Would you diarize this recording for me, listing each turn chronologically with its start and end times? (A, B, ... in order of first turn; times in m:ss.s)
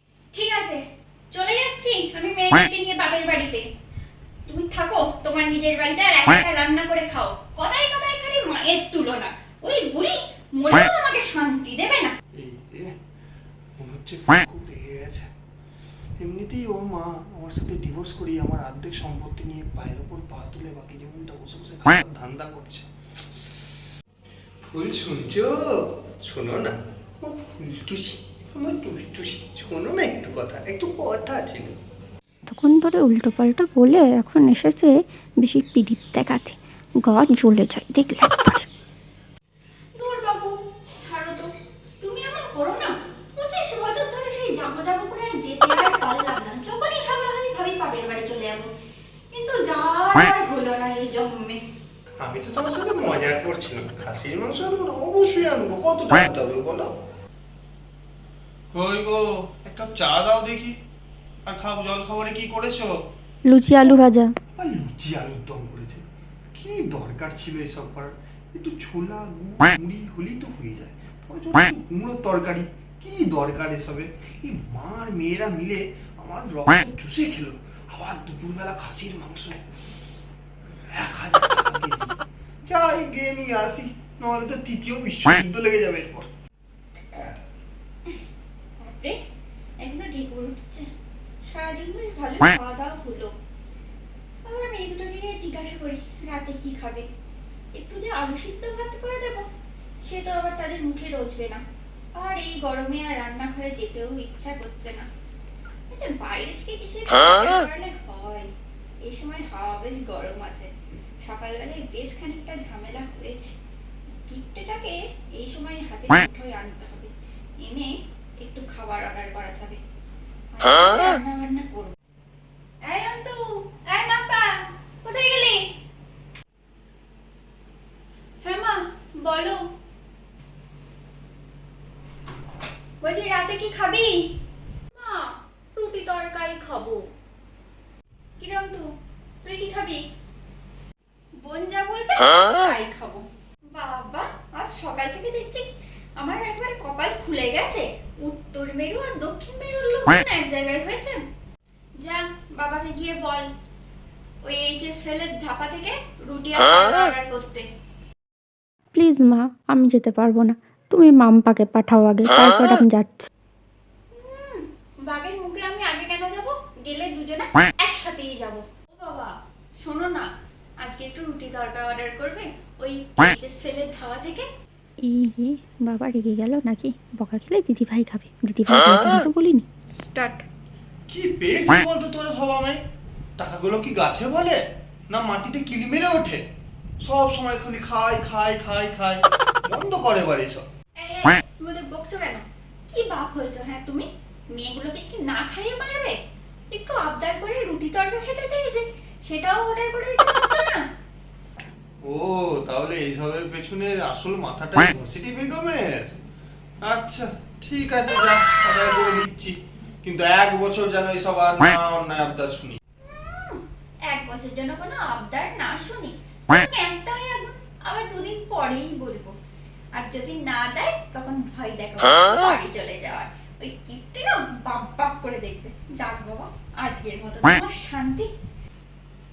0:00.3-0:00.8 A
0:01.3-0:03.6 A
0:04.5-0:12.1 A
0:12.3-0:13.0 B
0:13.8-0:15.3 B
0:16.2-0:23.6 B
0:24.6-0:31.8 B
0:32.5-0:38.7 C
0:40.0-0:48.7 A
0:49.3-0:51.6 A
0:52.2-0:56.9 B
0:58.7-1:00.8 B
1:01.4-1:03.0 B
1:03.5-1:04.3 C
1:03.8-1:06.0 B
1:06.5-1:19.7 B
1:20.9-1:26.3 B
1:28.8-1:29.2 A
1:29.8-1:30.9 A
1:31.4-1:33.3 A
1:34.4-1:37.1 A
1:37.8-1:39.5 A
1:40.0-1:41.6 A
1:42.2-1:45.1 A
1:45.9-1:48.5 A
1:49.0-1:50.7 A
1:51.2-1:53.6 A
1:54.2-1:59.8 A
2:00.5-2:01.9 A
2:02.8-2:05.6 A
2:08.4-2:09.6 A
2:13.0-2:14.3 A
2:14.9-2:17.0 A
2:18.4-2:18.9 A
2:19.4-2:20.0 A
2:21.4-2:31.2 A
2:32.0-2:33.5 A
2:34.4-2:37.7 A
2:38.9-2:43.3 C
2:44.1-2:54.5 A
2:55.0-2:59.7 C
2:59.9-3:00.4 A
3:01.1-3:02.8 B
3:03.4-3:06.4 B
3:07.0-3:10.7 B
3:11.0-3:16.2 A
3:16.7-3:20.8 A
3:22.0-3:26.1 B
3:26.8-3:32.8 B
3:33.0-3:39.3 A
3:39.9-3:48.3 A